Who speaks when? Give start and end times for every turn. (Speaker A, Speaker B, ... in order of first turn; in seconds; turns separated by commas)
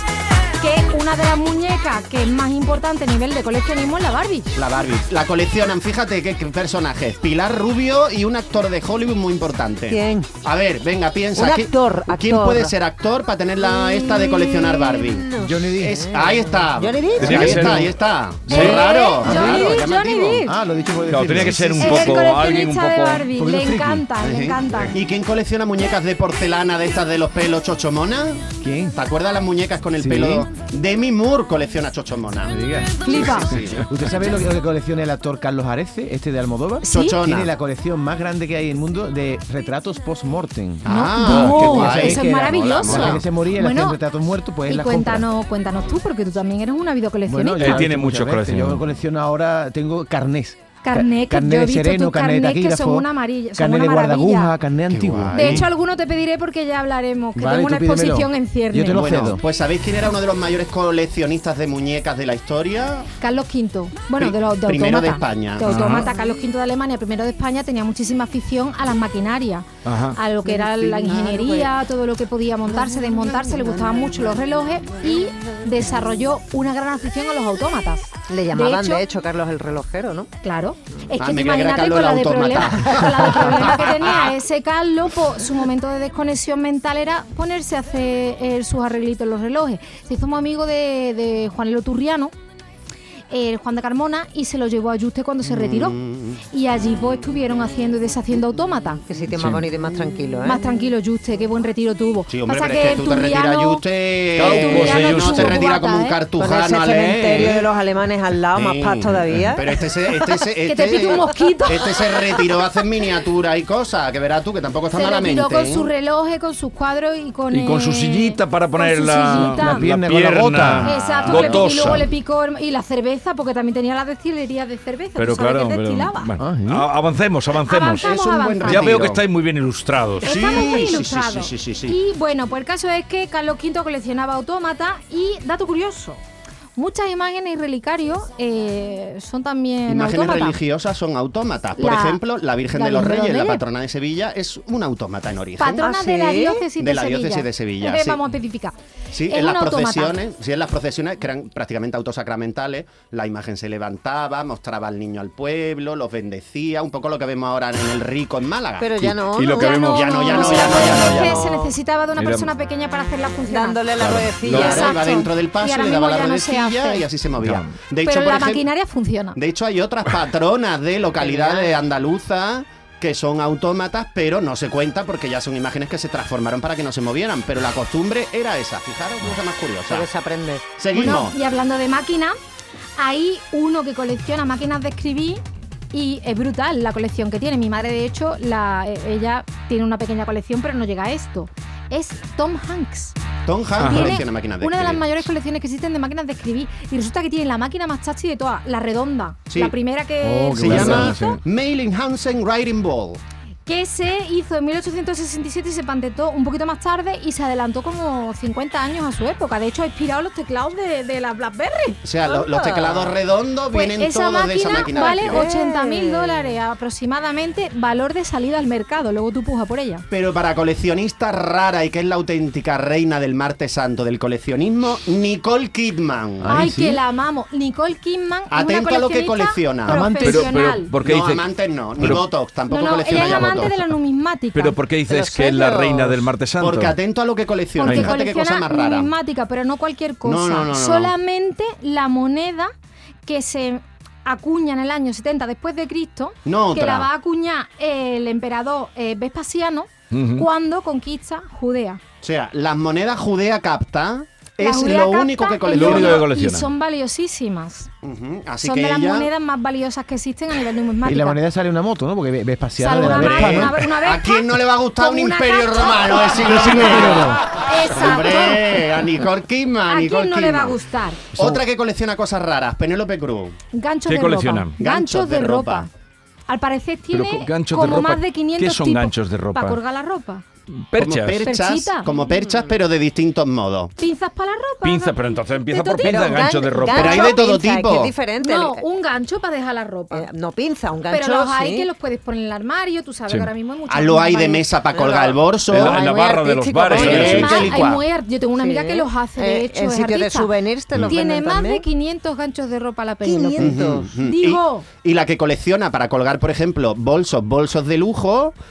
Speaker A: 0.6-4.5, Speaker B: 4.5-20.4, Speaker C: 9.9-10.3, Speaker C: 11.3-12.7, Speaker C: 13.8-17.8, Speaker A: 14.0-14.7, Speaker D: 15.4-16.0, Speaker E: 17.2-17.9, Speaker E: 18.5-18.8, Speaker A: 18.5-20.6, Speaker D: 19.2-19.8, Speaker D: 20.5-22.1, Speaker E: 21.1-23.3, Speaker A: 21.8-25.0, Speaker D: 23.3-24.1, Speaker B: 24.2-32.5, Speaker D: 28.6-29.0, Speaker D: 30.0-30.5, Speaker D: 32.5-33.0, Speaker A: 33.0-33.5, Speaker B: 33.1-33.9, Speaker D: 33.9-45.3, Speaker A: 36.8-37.2, Speaker B: 36.9-37.5, Speaker B: 40.8-43.2, Speaker A: 40.9-44.0, Speaker A: 44.7-47.8, Speaker D: 47.2-55.7, Speaker E: 47.6-48.9, Speaker A: 50.8-54.5, Speaker B: 54.9-55.7, Speaker A: 55.3-59.0, Speaker D: 57.4-59.4, Speaker B: 58.9-63.1, Speaker A: 63.2-79.1, Speaker B: 64.2-65.9, Speaker E: 65.7-66.1, Speaker E: 69.8-70.2, Speaker C: 70.5-71.7, Speaker C: 72.8-73.1, Speaker C: 78.3-80.3, Speaker A: 80.4-92.3, Speaker B: 81.2-84.3, Speaker A: 93.3-96.0, Speaker B: 95.4-96.4, Speaker A: 96.5-99.0, Speaker C: 99.1-100.6, Speaker E: 99.3-99.6, Speaker A: 100.4-103.8, Speaker B: 102.3-107.7, Speaker E: 104.4-105.7, Speaker A: 104.4-106.2, Speaker C: 106.4-109.8, Speaker B: 108.5-115.9, Speaker A: 110.6-112.0, Speaker A: 114.9-119.9, Speaker E: 117.5-122.1, Speaker D: 119.3-121.1, Speaker B: 120.7-122.1, Speaker A: 120.8-126.4, Speaker E: 125.2-128.1, Speaker D: 126.4-126.9, Speaker A: 127.7-129.0, Speaker B: 128.0-129.2, Speaker E: 128.6-130.4, Speaker B: 130.2-132.0, Speaker A: 130.2-136.2, Speaker A: 136.8-140.6, Speaker B: 139.9-145.9, Speaker A: 141.8-143.6, Speaker A: 145.6-148.8, Speaker C: 145.8-146.6, Speaker B: 146.8-148.2, Speaker B: 149.1-158.9, Speaker A: 149.3-150.2, Speaker C: 158.8-159.7, Speaker E: 159.0-162.5, Speaker A: 159.6-167.1, Speaker B: 159.8-161.5, Speaker C: 163.5-165.0, Speaker E: 164.0-164.8, Speaker B: 164.4-168.7, Speaker E: 167.4-167.7, Speaker A: 168.0-169.4, Speaker B: 169.3-180.1, Speaker C: 171.2-171.7, Speaker C: 179.9-180.7, Speaker B: 180.8-181.4, Speaker A: 180.9-182.3, Speaker A: 183.0-193.2, Speaker B: 193.5-195.1, Speaker E: 193.8-194.2, Speaker A: 193.8-201.4, Speaker B: 199.5-199.8, Speaker D: 200.2-201.2, Speaker B: 200.6-203.2, Speaker E: 201.1-201.4, Speaker A: 203.7-212.0, Speaker B: 212.0-215.5, Speaker C: 212.2-213.2, Speaker A: 213.7-220.1, Speaker C: 214.7-216.6, Speaker B: 220.1-226.5, Speaker D: 226.4-227.0, Speaker A: 226.5-230.9, Speaker B: 228.5-230.1, Speaker D: 229.9-230.4, Speaker E: 230.2-232.3, Speaker B: 231.0-233.7, Speaker A: 232.7-234.8, Speaker E: 233.1-233.7, Speaker E: 234.6-237.0, Speaker C: 235.1-236.3, Speaker B: 236.6-239.1, Speaker A: 237.8-242.7, Speaker E: 237.9-238.1, Speaker B: 240.2-241.1, Speaker A: 243.2-252.0, Speaker B: 246.4-247.1, Speaker E: 250.1-250.5, Speaker B: 252.2-256.2, Speaker A: 254.6-257.9, Speaker E: 255.7-256.7, Speaker B: 258.0-259.3, Speaker A: 258.6-261.4, Speaker D: 261.1-263.8, Speaker A: 262.8-268.9, Speaker B: 263.0-270.8, Speaker D: 266.5-267.4, Speaker A: 269.9-271.2, Speaker E: 271.3-271.6, Speaker B: 271.4-273.6, Speaker A: 273.7-275.9, Speaker E: 274.1-274.8, Speaker B: 274.8-275.9, Speaker A: 276.5-280.4, Speaker E: 277.1-279.8, Speaker E: 280.7-281.4, Speaker B: 281.0-283.9, Speaker A: 281.4-282.1, Speaker C: 282.3-282.7, Speaker A: 284.0-287.3, Speaker E: 284.8-287.2, Speaker C: 286.0-288.8, Speaker B: 286.9-288.1, Speaker A: 288.4-290.3, Speaker C: 290.1-291.9, Speaker A: 291.1-294.7, Speaker B: 293.9-296.1, Speaker C: 294.9-297.2, Speaker E: 295.7-297.8, Speaker B: 296.9-298.0, Speaker A: 296.9-300.5, Speaker C: 298.6-301.9, Speaker A: 301.0-304.9, Speaker C: 303.2-304.2, Speaker B: 303.6-308.6